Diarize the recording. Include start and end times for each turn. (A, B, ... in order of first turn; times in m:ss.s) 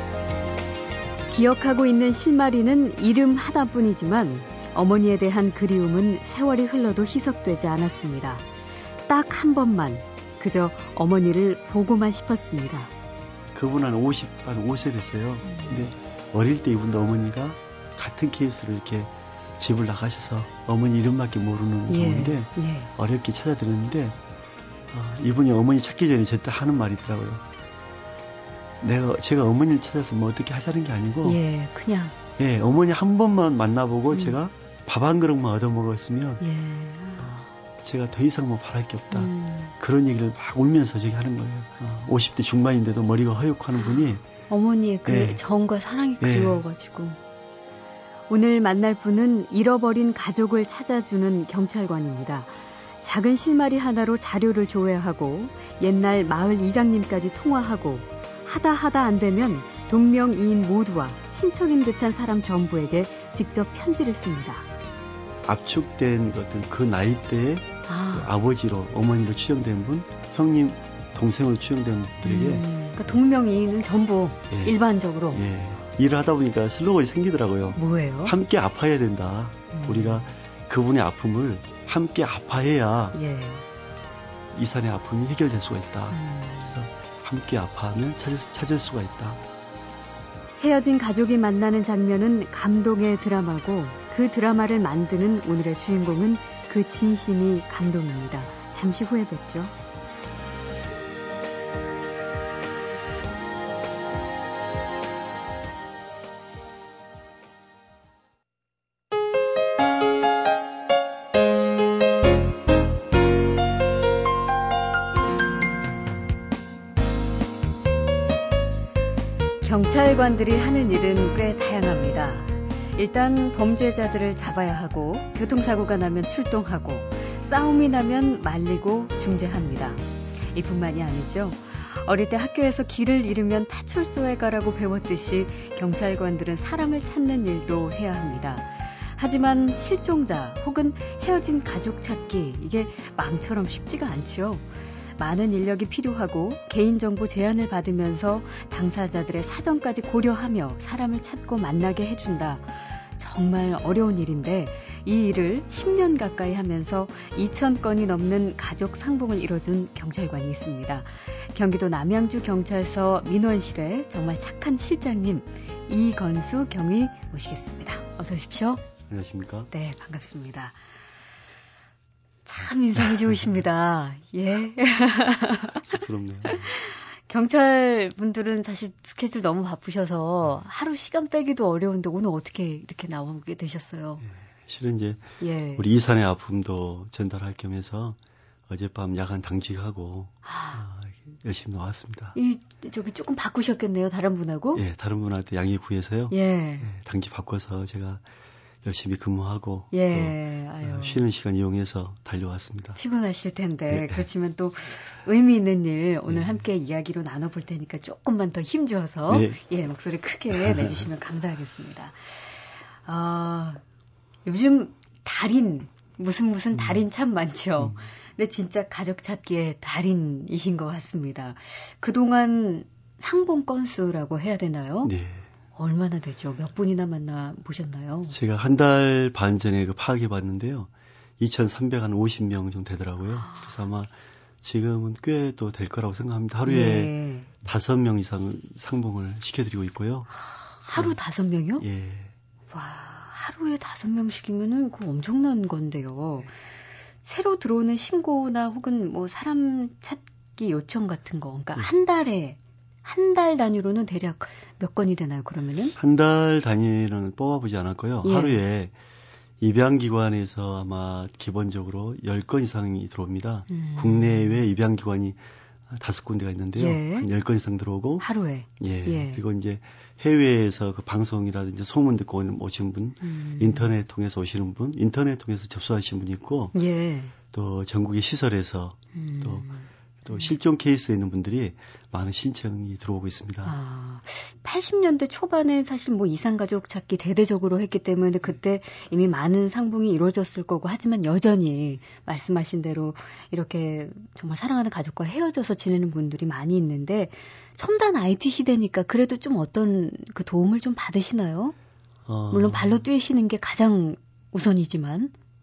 0:01.3-0:08.4 A
0:09.1-0:12.9 A
0:13.5-0:24.2 B
0:15.4-0:15.9 A
0:21.9-0:22.9 A
0:24.9-0:27.4 B
0:28.8-0:31.4 B
0:31.2-0:32.2 A
0:32.4-0:36.4 B
0:34.1-0:34.4 A
0:36.4-0:37.5 A
0:37.2-0:44.2 B
0:39.1-0:39.7 A
0:44.5-0:47.2 A
0:45.0-0:45.4 B
0:46.2-0:46.6 B
0:48.3-1:04.7 A
1:05.4-1:12.7 B
1:07.9-1:08.3 A
1:12.2-1:15.4 A
1:14.5-1:14.8 B
1:15.3-1:23.2 B
1:17.7-1:18.3 A
1:19.7-1:20.3 A
1:23.1-1:23.6 A
1:24.5-1:29.4 B
1:26.1-1:26.8 A
1:30.6-1:39.7 A
1:59.6-2:48.8 A
2:49.1-2:49.7 B
2:49.7-2:50.8 A
2:52.4-3:04.2 A
2:55.8-2:56.7 B
3:04.2-3:08.2 B
3:05.4-3:05.9 A
3:08.7-3:12.4 B
3:10.4-3:10.8 A
3:12.3-3:14.8 A
3:14.7-3:18.2 B
3:16.3-3:16.9 A
3:18.8-3:23.0 B
3:19.9-3:21.2 A
3:23.0-3:33.8 A
3:23.9-3:24.2 B
3:26.3-3:26.6 B
3:29.3-3:29.6 B
3:30.5-3:31.0 B
3:34.4-3:45.1 A
3:36.7-3:37.0 B
3:45.0-3:45.5 B
3:45.8-3:48.4 A
3:48.3-3:54.1 B
3:54.6-4:00.3 B
3:56.6-3:57.5 A
4:00.8-4:01.8 A
4:00.9-4:01.1 B
4:01.8-4:02.3 B
4:02.7-4:06.5 A
4:07.2-4:15.9 A
4:16.0-4:18.9 B
4:18.2-4:18.6 A
4:19.6-4:25.4 B
4:23.7-4:24.6 A
4:25.9-4:28.2 B
4:26.8-4:27.3 A
4:28.2-4:29.4 A
4:28.8-4:36.7 B
4:33.2-4:33.9 A
4:36.7-4:37.3 A
4:37.5-4:39.7 B
4:39.1-4:40.5 A
4:40.2-4:43.8 B
4:43.6-5:01.7 A
5:02.2-5:03.0 B
5:02.5-5:05.3 A